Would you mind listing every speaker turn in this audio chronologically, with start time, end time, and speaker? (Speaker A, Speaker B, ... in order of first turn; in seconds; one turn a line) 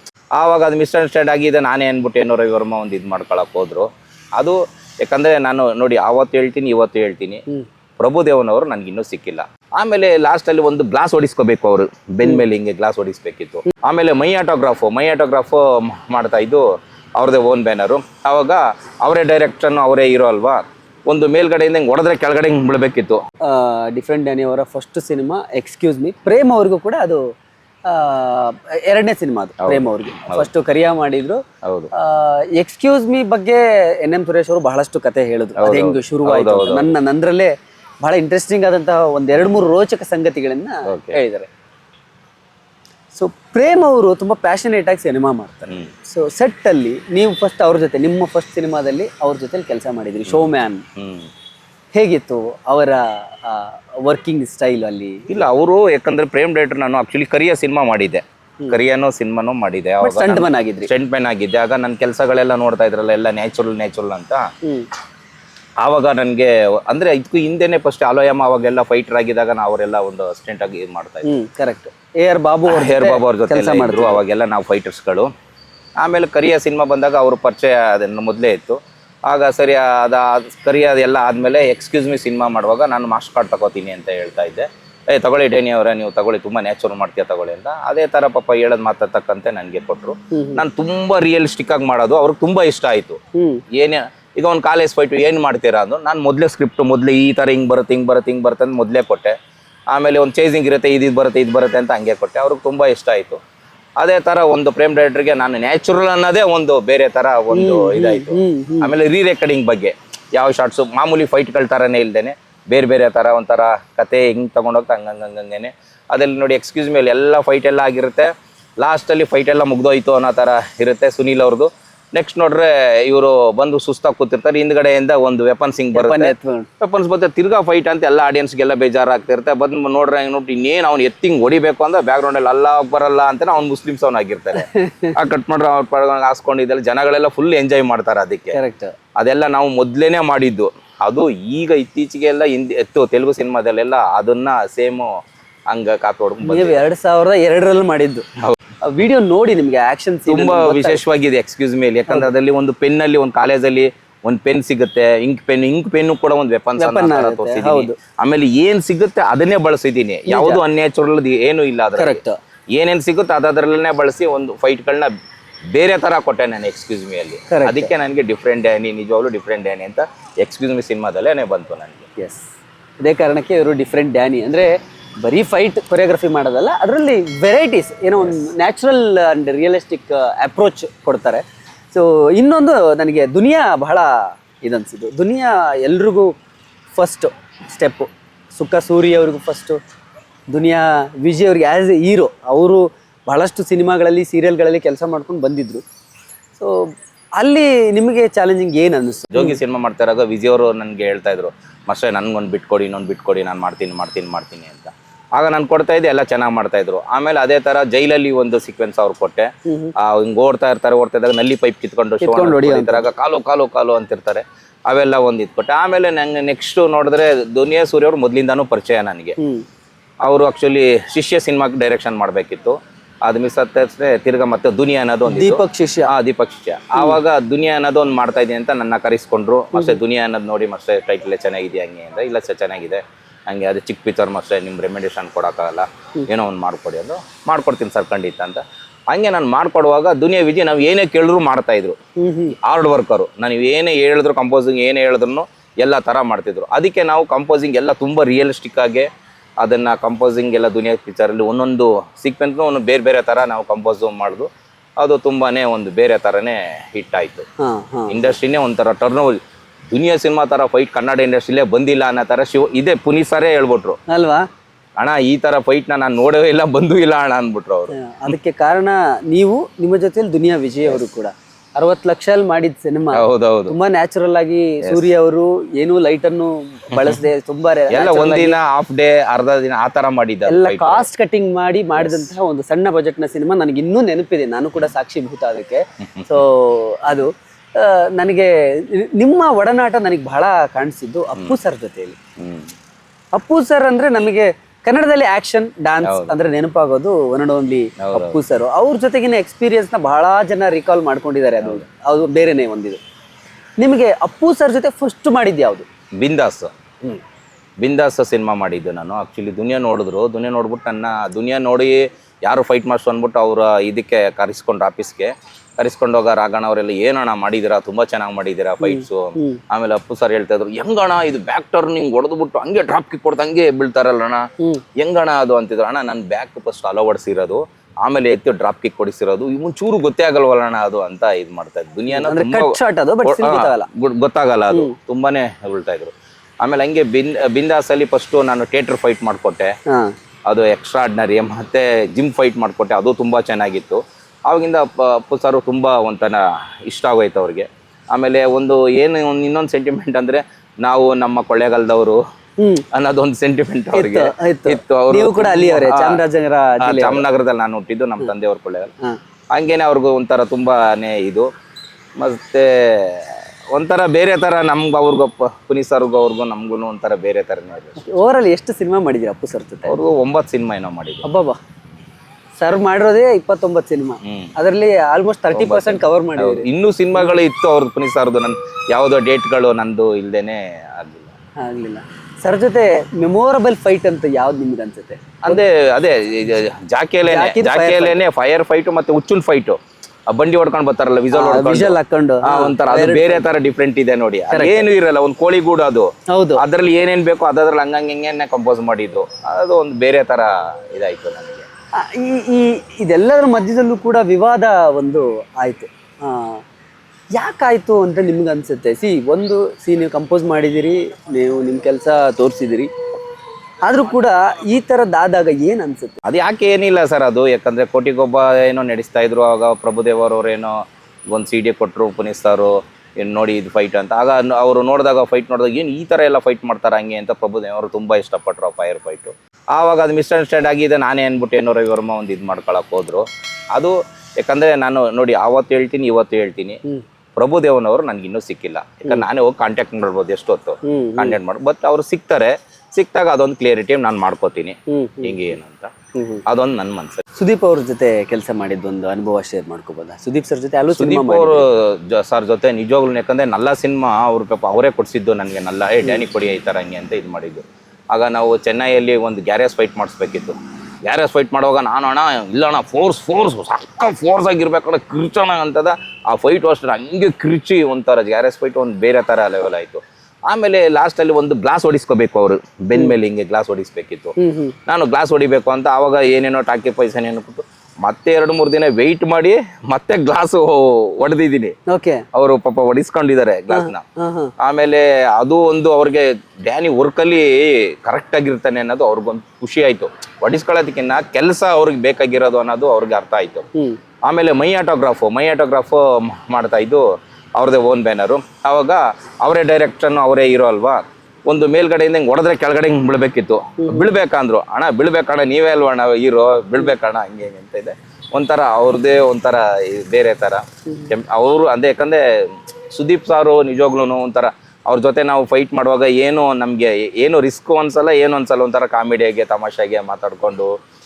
Speaker A: 0.4-7.4
Speaker A: 8.0-16.6
Speaker A: 17.2-23.2
Speaker B: 23.4-27.2
Speaker B: 27.9-31.4
Speaker A: 29.6-30.5
Speaker A: 31.6-31.9
Speaker B: 31.9-41.5
Speaker A: 35.5-36.9
Speaker A: 40.9-41.2
Speaker B: 43.1-50.8
Speaker A: 50.2-51.3
Speaker B: 51.9-55.3
Speaker A: 55.3-64.5
Speaker B: 60.0-60.9
Speaker A: 65.8-71.3
Speaker B: 71.2-74.2
Speaker A: 72.7-75.3
Speaker A: 76.0-93.2
Speaker B: 90.3-90.6
Speaker B: 93.3-93.6
Speaker A: 93.7-99.3
Speaker A: 99.9-103.4
Speaker A: 104.0-138.6
Speaker B: 107.5-108.9
Speaker B: 125.9-126.7
Speaker B: 134.6-135.2
Speaker B: 138.5-138.9
Speaker A: 139.2-145.1
Speaker A: 145.7-146.8
Speaker B: 146.4-148.2
Speaker B: 148.8-151.0
Speaker A: 150.3-162.2
Speaker B: 156.8-158.0
Speaker B: 160.3-160.6
Speaker B: 161.9-162.4
Speaker A: 162.7-165.1
Speaker A: 165.7-172.0
Speaker B: 167.5-167.9
Speaker B: 172.2-172.5
Speaker B: 173.0-186.3
Speaker B: 186.9-189.8
Speaker B: 190.5-195.8
Speaker B: 196.6-199.6
Speaker A: 199.3-219.4
Speaker B: 209.7-209.9
Speaker B: 212.2-213.1
Speaker B: 219.4-219.6
Speaker A: 220.2-242.0
Speaker B: 225.3-226.1
Speaker B: 229.7-230.0
Speaker B: 242.2-242.6
Speaker A: 242.6-249.1
Speaker A: 249.6-254.5
Speaker A: 255.0-257.4
Speaker B: 257.6-258.3
Speaker A: 258.1-259.4
Speaker A: 259.9-264.0
Speaker B: 264.1-264.4
Speaker A: 265.0-267.9
Speaker B: 267.9-278.6
Speaker A: 273.1-273.7
Speaker A: 276.9-277.2
Speaker A: 277.9-281.1
Speaker B: 280.5-292.1
Speaker A: 282.0-282.3
Speaker A: 286.0-286.4
Speaker A: 292.4-292.7
Speaker B: 293.3-303.0
Speaker A: 296.0-296.3
Speaker A: 298.0-298.4
Speaker B: 303.8-305.9
Speaker A: 306.2-306.7
Speaker A: 307.8-324.4
Speaker B: 318.8-319.6
Speaker A: 325.0-339.7
Speaker B: 332.1-333.9
Speaker B: 339.9-340.1
Speaker A: 340.5-352.2
Speaker B: 352.6-352.8
Speaker A: 352.9-356.2
Speaker B: 353.9-357.2
Speaker A: 356.8-358.9
Speaker A: 359.5-361.5
Speaker A: 362.2-368.0
Speaker B: 368.0-369.9
Speaker A: 369.9-371.2
Speaker B: 371.2-371.6
Speaker B: 372.6-377.4
Speaker A: 374.2-374.5
Speaker A: 375.5-381.3
Speaker B: 381.6-385.6
Speaker A: 385.4-389.8
Speaker B: 387.2-388.2
Speaker A: 390.3-401.7
Speaker B: 391.3-393.5
Speaker B: 394.5-394.9
Speaker B: 396.3-396.6
Speaker B: 401.9-406.6
Speaker B: 407.3-412.9
Speaker B: 413.9-416.2
Speaker A: 416.2-420.8
Speaker A: 421.3-436.8
Speaker A: 437.4-445.9
Speaker B: 440.8-441.4
Speaker B: 444.9-445.4
Speaker B: 446.1-446.4
Speaker A: 446.4-447.2
Speaker B: 447.4-451.6
Speaker A: 450.9-481.8
Speaker B: 474.4-474.7
Speaker B: 481.9-482.2
Speaker A: 482.3-484.1
Speaker B: 483.7-484.5
Speaker A: 484.6-493.7
Speaker A: 494.3-497.0
Speaker A: 497.6-520.7
Speaker B: 503.8-504.1